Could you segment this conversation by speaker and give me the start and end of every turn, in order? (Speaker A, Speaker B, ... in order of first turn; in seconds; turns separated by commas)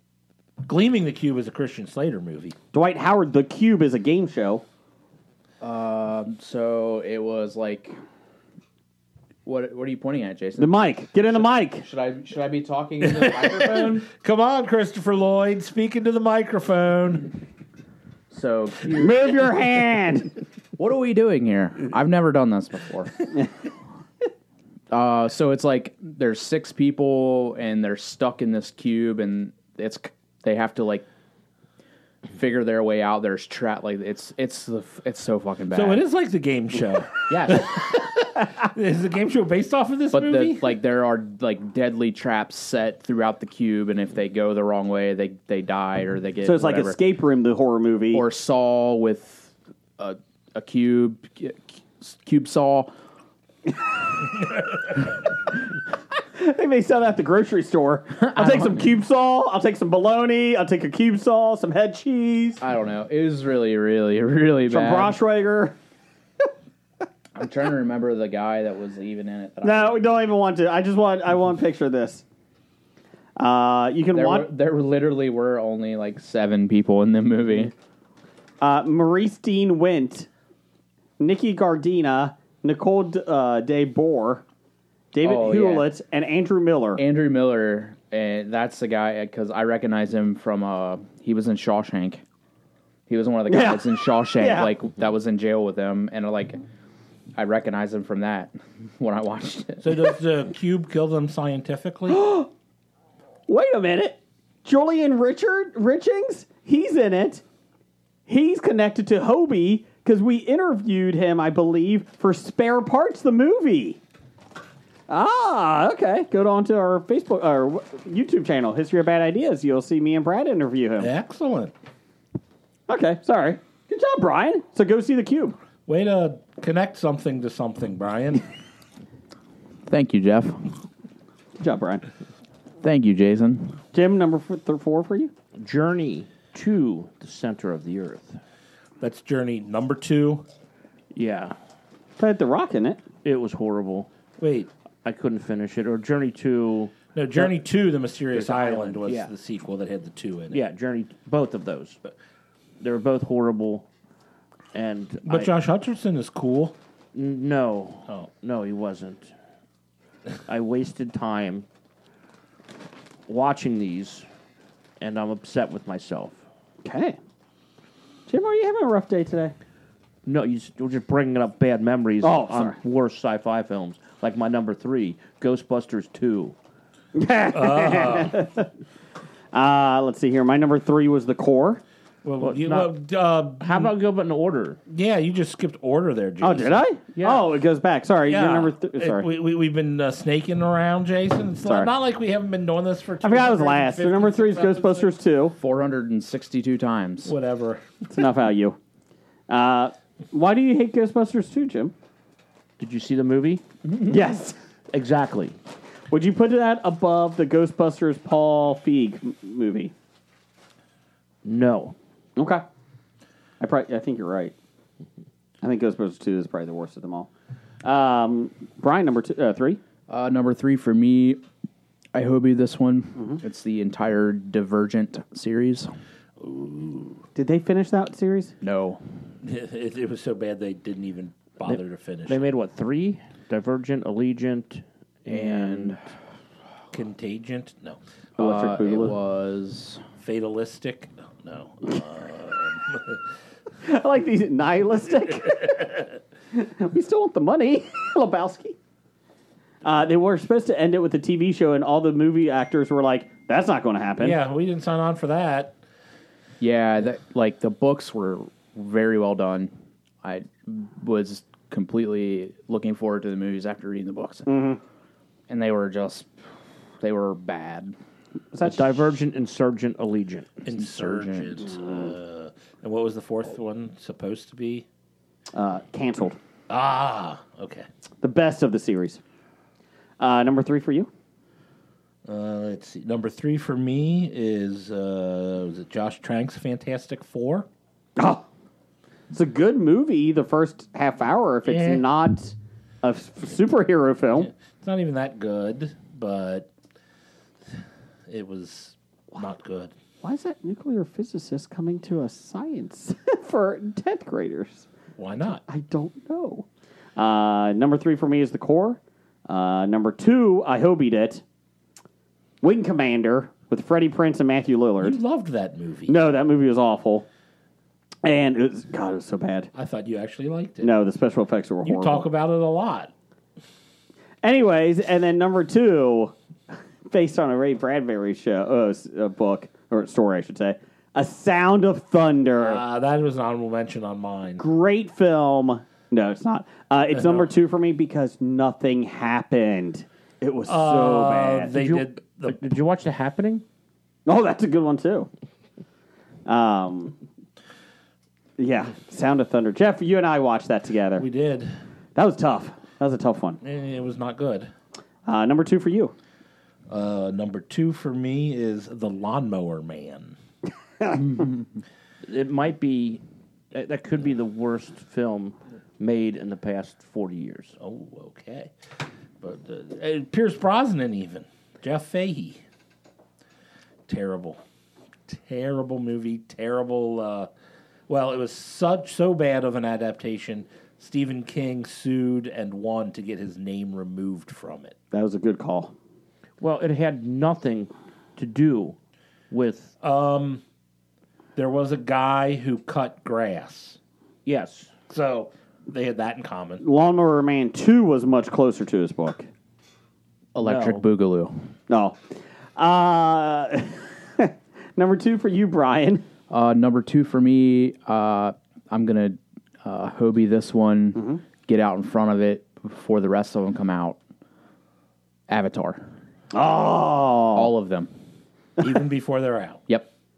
Speaker A: 0.6-2.5, Speaker B: 2.7-4.6, Speaker C: 5.6-8.0, Speaker C: 9.4-14.1, Speaker B: 10.6-11.8, Speaker A: 13.1-17.4, Speaker C: 18.3-19.4, Speaker B: 18.9-20.3, Speaker C: 20.8-23.2, Speaker C: 24.9-31.1, Speaker C: 32.3-36.0, Speaker A: 35.7-40.7, Speaker C: 40.1-47.0, Speaker B: 46.4-48.2, Speaker C: 48.1-52.9, Speaker B: 56.3-62.6, Speaker C: 58.2-58.9, Speaker C: 62.6-65.2, Speaker B: 64.7-65.8, Speaker C: 67.3-70.0, Speaker B: 69.6-72.2, Speaker B: 73.4-74.5, Speaker C: 74.1-77.7, Speaker B: 78.6-80.3, Speaker B: 81.2-84.4, Speaker B: 85.1-87.0, Speaker C: 85.2-85.9, Speaker C: 87.0-92.2, Speaker C: 93.1-96.6, Speaker B: 93.5-94.7, Speaker C: 97.3-100.0, Speaker A: 99.8-102.2, Speaker B: 102.1-102.5, Speaker B: 103.5-107.4, Speaker B: 108.3-114.0, Speaker B: 115.1-121.1, Speaker A: 121.0-121.7, Speaker B: 122.9-125.6, Speaker A: 125.9-128.4, Speaker C: 129.9-130.7, Speaker B: 131.6-132.0, Speaker C: 132.8-133.8, Speaker B: 133.9-135.3, Speaker D: 135.6-138.4, Speaker A: 139.0-140.4, Speaker D: 141.1-141.6, Speaker B: 142.2-143.0, Speaker D: 143.2-144.1, Speaker A: 144.4-144.7, Speaker D: 145.0-147.5, Speaker A: 147.1-150.6, Speaker D: 148.3-149.3, Speaker D: 150.5-152.0, Speaker D: 152.8-153.8, Speaker D: 154.7-155.5, Speaker A: 155.2-156.8, Speaker D: 157.1-159.3, Speaker D: 160.5-161.7, Speaker D: 163.3-164.2, Speaker D: 165.0-166.4, Speaker B: 166.8-167.2, Speaker B: 168.3-169.5, Speaker D: 170.2-176.5, Speaker B: 172.2-172.8, Speaker B: 177.1-178.7, Speaker A: 177.5-178.4, Speaker B: 179.5-181.8, Speaker A: 182.2-183.9, Speaker D: 182.4-182.9, Speaker D: 183.6-184.8, Speaker A: 184.9-186.8, Speaker B: 186.4-189.3, Speaker D: 187.2-187.4, Speaker A: 188.3-195.1, Speaker B: 191.6-191.9, Speaker B: 193.2-195.5, Speaker C: 195.6-197.3, Speaker A: 197.2-197.8, Speaker B: 198.1-198.8, Speaker B: 199.5-201.9, Speaker D: 202.8-203.6, Speaker B: 204.0-204.6, Speaker D: 204.9-205.6, Speaker B: 206.1-209.9, Speaker D: 211.4-211.9, Speaker B: 212.3-212.6, Speaker B: 213.6-214.5, Speaker B: 215.6-217.3, Speaker B: 217.8-219.8, Speaker C: 220.1-221.4, Speaker C: 222.1-225.9, Speaker A: 226.4-227.2, Speaker B: 227.3-228.5, Speaker C: 228.6-229.0, Speaker A: 229.4-232.4, Speaker D: 231.6-236.0, Speaker C: 235.3-236.0, Speaker A: 236.9-238.0, Speaker B: 238.4-239.2, Speaker C: 238.4-240.0, Speaker A: 240.2-243.2, Speaker B: 243.8-248.8, Speaker B: 249.8-254.4, Speaker A: 254.2-255.8, Speaker C: 256.6-259.7, Speaker C: 260.2-264.5, Speaker B: 264.5-264.8, Speaker C: 265.5-266.3, Speaker C: 267.0-267.9, Speaker B: 268.5-269.0, Speaker D: 268.6-270.6, Speaker A: 270.6-274.8, Speaker C: 270.7-271.7, Speaker B: 271.7-272.1, Speaker B: 275.5-276.4, Speaker A: 276.7-277.9, Speaker B: 278.2-279.2, Speaker B: 280.2-281.1, Speaker A: 282.2-287.6, Speaker B: 288.2-288.4, Speaker B: 289.3-294.5, Speaker A: 291.6-292.0, Speaker A: 294.3-296.7, Speaker A: 298.3-299.9, Speaker B: 300.2-304.9, Speaker A: 305.2-305.6, Speaker B: 305.7-311.4, Speaker B: 312.6-315.2, Speaker A: 315.0-316.2, Speaker B: 316.1-317.2, Speaker B: 318.2-319.7, Speaker A: 319.7-320.9, Speaker B: 320.8-322.2, Speaker A: 321.8-323.1, Speaker B: 324.4-326.3, Speaker B: 327.1-332.8, Speaker A: 332.6-334.6, Speaker B: 334.6-341.7, Speaker A: 337.2-337.4, Speaker A: 340.6-342.6, Speaker D: 341.7-343.6, Speaker B: 344.2-345.3, Speaker B: 346.4-347.1, Speaker B: 348.6-351.2, Speaker A: 351.2-351.7, Speaker B: 352.1-353.6, Speaker A: 353.6-354.7, Speaker B: 355.2-356.1, Speaker A: 356.9-360.4, Speaker D: 362.2-367.7, Speaker A: 367.8-368.7, Speaker A: 369.4-372.6, Speaker A: 374.1-374.6, Speaker A: 375.3-377.5, Speaker A: 378.1-384.9, Speaker B: 385.1-385.9, Speaker D: 386.6-388.9, Speaker D: 389.5-389.9, Speaker A: 390.0-390.6, Speaker A: 391.6-394.0, Speaker D: 394.4-394.9, Speaker A: 395.1-396.8, Speaker B: 396.8-399.5, Speaker C: 400.5-401.6, Speaker D: 400.6-401.0, Speaker B: 401.9-402.2, Speaker B: 402.8-406.2, Speaker C: 406.5-414.2, Speaker B: 411.1-411.4, Speaker C: 415.5-416.0, Speaker B: 416.5-417.7, Speaker C: 417.5-418.1, Speaker A: 418.8-419.8